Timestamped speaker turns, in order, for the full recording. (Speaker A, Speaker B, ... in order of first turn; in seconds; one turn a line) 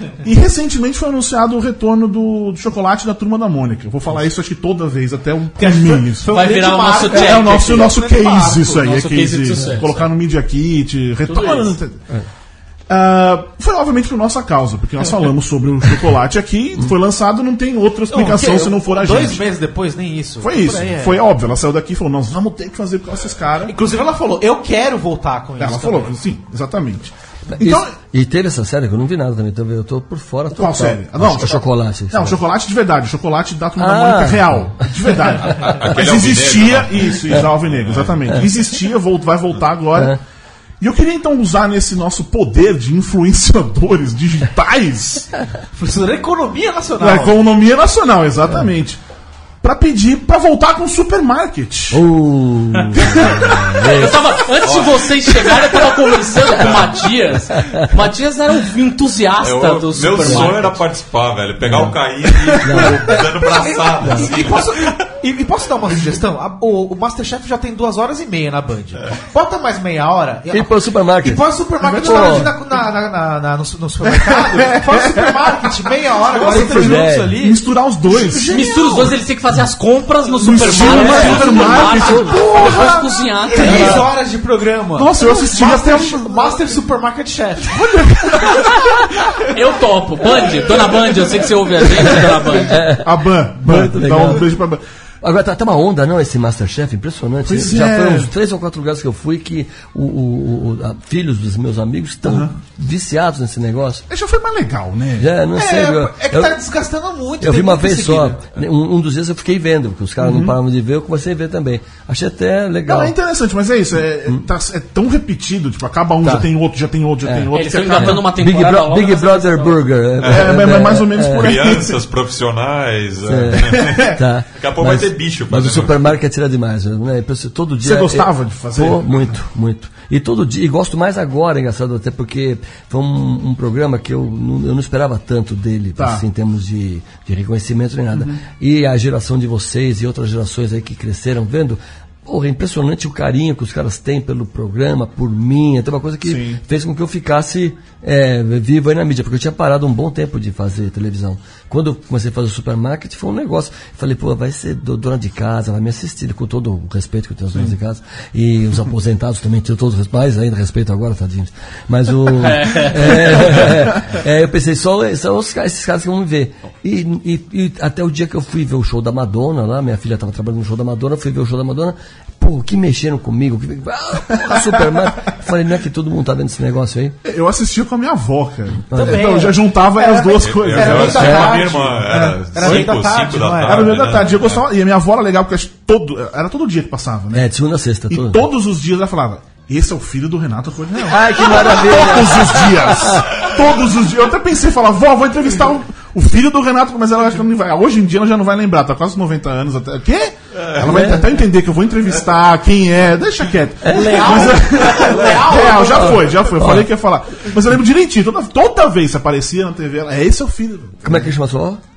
Speaker A: 0.2-12.0
Speaker B: 5.6-9.1
Speaker C: 6.3-7.9
Speaker C: 8.8-10.1
Speaker C: 11.3-11.8
Speaker A: 12.9-19.4
Speaker B: 18.1-21.2
Speaker A: 20.4-23.8
Speaker B: 23.6-26.1
Speaker A: 25.6-27.9
Speaker D: 27.5-32.4
Speaker A: 30.5-40.2
Speaker D: 33.8-35.0
Speaker E: 35.5-38.1
Speaker A: 40.8-45.3
Speaker B: 45.8-47.5
Speaker A: 47.0-49.0
Speaker A: 49.6-52.0
Speaker D: 51.9-54.3
Speaker A: 52.9-53.8
Speaker C: 53.8-60.8
Speaker E: 54.6-55.0
Speaker E: 56.5-57.1
Speaker D: 57.6-57.9
Speaker E: 59.4-64.9
Speaker D: 60.2-60.6
Speaker D: 61.6-61.9
Speaker A: 62.5-62.8
Speaker D: 62.6-63.2
Speaker B: 62.8-79.1
Speaker D: 64.0-64.3
Speaker D: 70.5-71.5
Speaker A: 71.8-72.5
Speaker D: 72.0-72.5
Speaker A: 74.0-79.1
Speaker D: 76.4-77.3
Speaker C: 78.5-84.0
Speaker A: 80.4-84.1
Speaker B: 80.5-81.8
Speaker D: 80.7-82.9
Speaker B: 83.5-89.3
Speaker A: 84.9-86.5
Speaker A: 87.7-89.1
Speaker C: 89.5-92.8
Speaker D: 91.9-94.5
Speaker A: 92.8-94.8
Speaker D: 95.2-104.0
Speaker A: 97.5-98.3
Speaker A: 102.3-102.5
Speaker A: 104.1-105.3
Speaker D: 105.2-106.6
Speaker B: 105.5-108.5
Speaker D: 107.4-113.2
Speaker A: 110.2-110.6
Speaker A: 112.9-118.3
Speaker D: 116.2-116.5
Speaker D: 117.2-121.6
Speaker C: 117.5-119.8
Speaker E: 120.2-120.6
Speaker A: 120.2-122.0
Speaker E: 121.3-124.0
Speaker D: 123.2-177.2
Speaker A: 123.6-124.2
Speaker E: 124.5-126.2
Speaker A: 127.8-129.3
Speaker A: 136.0-136.2
Speaker A: 138.1-138.4
Speaker A: 146.2-146.6
Speaker C: 162.4-163.7
Speaker A: 177.3-182.9
Speaker D: 178.9-179.4
Speaker B: 178.9-184.2
Speaker E: 180.4-184.6
Speaker D: 181.1-181.6
Speaker A: 183.7-187.5
Speaker D: 187.3-188.5
Speaker A: 188.1-211.3
Speaker D: 191.0-193.5
Speaker D: 200.8-201.3
Speaker D: 203.8-204.6
Speaker C: 203.9-205.4
Speaker B: 203.9-206.3
Speaker D: 205.9-206.9
Speaker D: 211.0-211.8